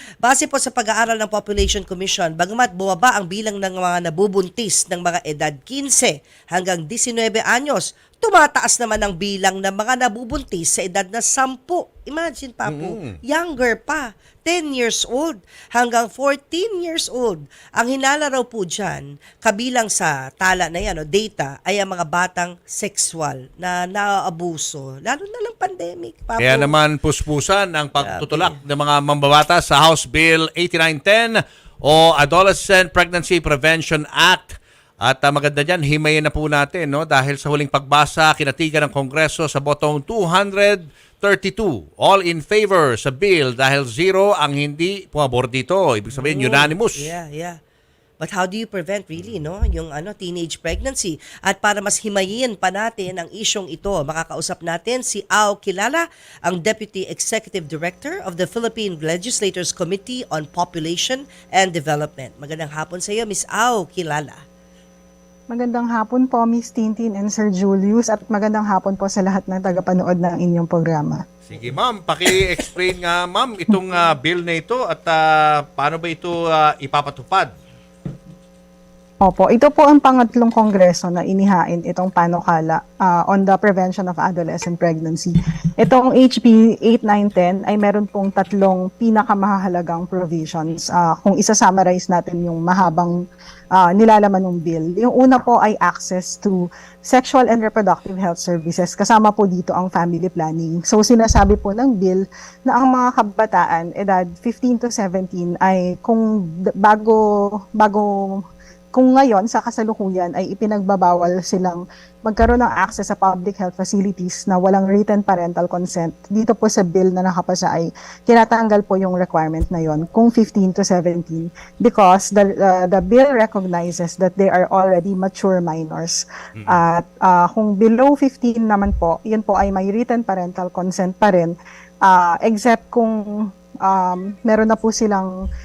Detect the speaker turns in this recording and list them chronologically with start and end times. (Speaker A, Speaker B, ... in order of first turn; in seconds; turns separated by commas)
Speaker A: 0.2-26.7, Speaker B: 12.7-13.2, Speaker B: 26.4-47.1, Speaker A: 28.0-28.6, Speaker A: 46.1-47.6, Speaker A: 48.2-64.4, Speaker C: 65.5-71.2, Speaker B: 71.5-77.5, Speaker C: 79.2-93.2, Speaker C: 93.7-106.2, Speaker C: 106.8-107.2, Speaker C: 107.8-108.4, Speaker C: 108.9-131.5, Speaker B: 126.6-126.8, Speaker C: 132.0-133.2, Speaker C: 133.8-135.3